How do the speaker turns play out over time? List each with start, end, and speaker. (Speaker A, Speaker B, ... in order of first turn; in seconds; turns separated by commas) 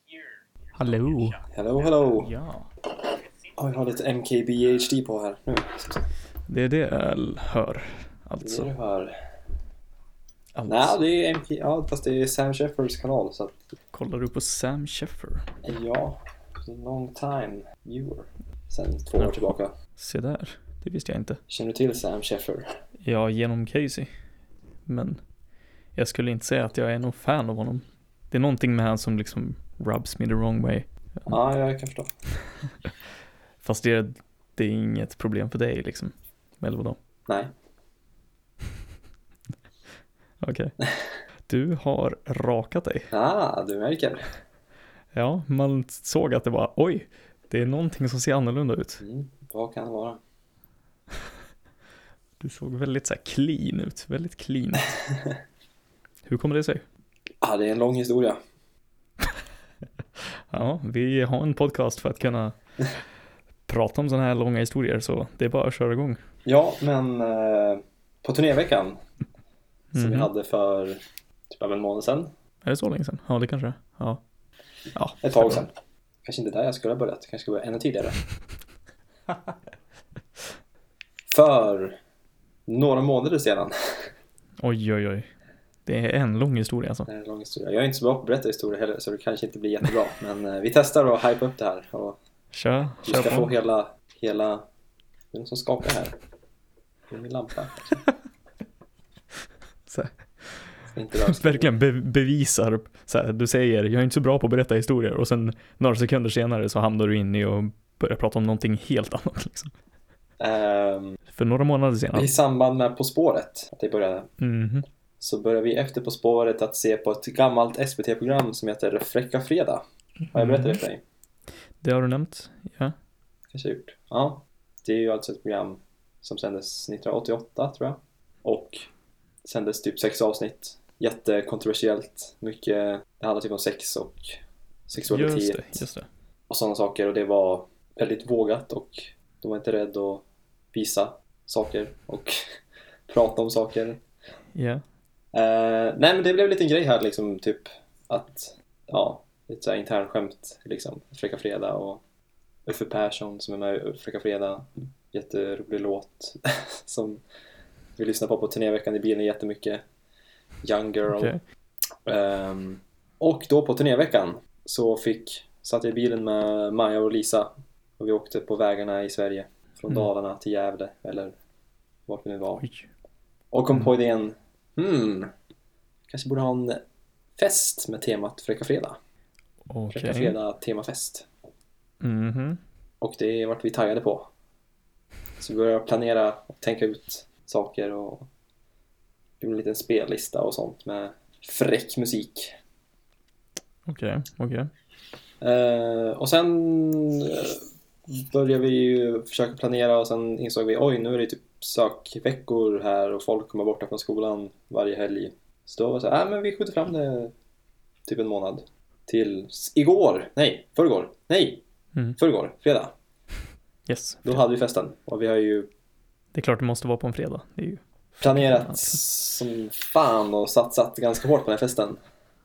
Speaker A: 0.7-1.4, Speaker B: 1.5-2.3, Speaker A: 2.2-2.7, Speaker B: 3.5-6.1, Speaker A: 6.5-8.7, Speaker B: 8.4-9.1, Speaker A: 10.6-11.0, Speaker B: 10.7-13.6, Speaker A: 13.9-15.5, Speaker B: 15.6-19.7, Speaker A: 19.2-21.4, Speaker B: 21.5-22.7, Speaker A: 23.0-24.1, Speaker A: 24.9-25.2, Speaker A: 25.9-31.3, Speaker B: 31.3-32.1, Speaker A: 33.6-37.0, Speaker A: 40.4-40.7, Speaker A: 41.5-43.1, Speaker B: 43.1-44.3, Speaker A: 45.1-49.0, Speaker B: 49.0-50.2, Speaker A: 52.4-55.0, Speaker A: 56.2-56.8, Speaker B: 57.4-58.4, Speaker A: 60.2-62.5, Speaker A: 63.7-66.2, Speaker B: 66.5-69.0, Speaker B: 69.9-72.3, Speaker A: 69.9-70.3, Speaker A: 72.6-74.2, Speaker A: 74.9-75.7, Speaker B: 75.2-75.7, Speaker B: 76.2-78.2, Speaker B: 81.3-82.0, Speaker B: 82.7-83.7, Speaker A: 84.6-85.3, Speaker A: 85.8-87.1, Speaker B: 87.0-92.2, Speaker A: 92.5-93.5, Speaker B: 93.0-94.6, Speaker B: 95.3-96.1, Speaker B: 97.1-98.0, Speaker A: 99.9-100.6, Speaker B: 100.9-101.7, Speaker A: 101.2-109.7, Speaker B: 110.4-111.2, Speaker A: 111.3-112.3, Speaker B: 112.1-114.3, Speaker A: 114.4-114.8, Speaker B: 115.2-119.8, Speaker A: 120.3-120.8, Speaker B: 120.3-121.0, Speaker A: 121.8-122.9, Speaker B: 123.5-128.9, Speaker B: 129.4-135.8, Speaker A: 135.0-136.1, Speaker B: 136.5-142.4, Speaker B: 143.1-144.0, Speaker A: 144.5-144.8, Speaker B: 145.3-152.0, Speaker B: 152.7-157.2, Speaker B: 158.0-159.8, Speaker B: 160.6-161.3, Speaker A: 161.1-161.4, Speaker B: 162.1-171.3, Speaker B: 172.1-172.6, Speaker A: 172.6-172.9, Speaker B: 173.5-175.3, Speaker B: 176.1-176.8, Speaker B: 177.4-179.0, Speaker A: 179.7-180.4, Speaker B: 179.9-181.2, Speaker A: 182.0-182.6, Speaker B: 183.0-184.3, Speaker B: 185.4-188.3, Speaker B: 189.4-192.6, Speaker A: 193.8-194.7, Speaker B: 195.4-207.3, Speaker B: 208.1-211.6, Speaker B: 212.2-212.9, Speaker A: 213.9-214.4, Speaker B: 214.2-215.7, Speaker A: 216.3-219.0, Speaker B: 218.2-222.0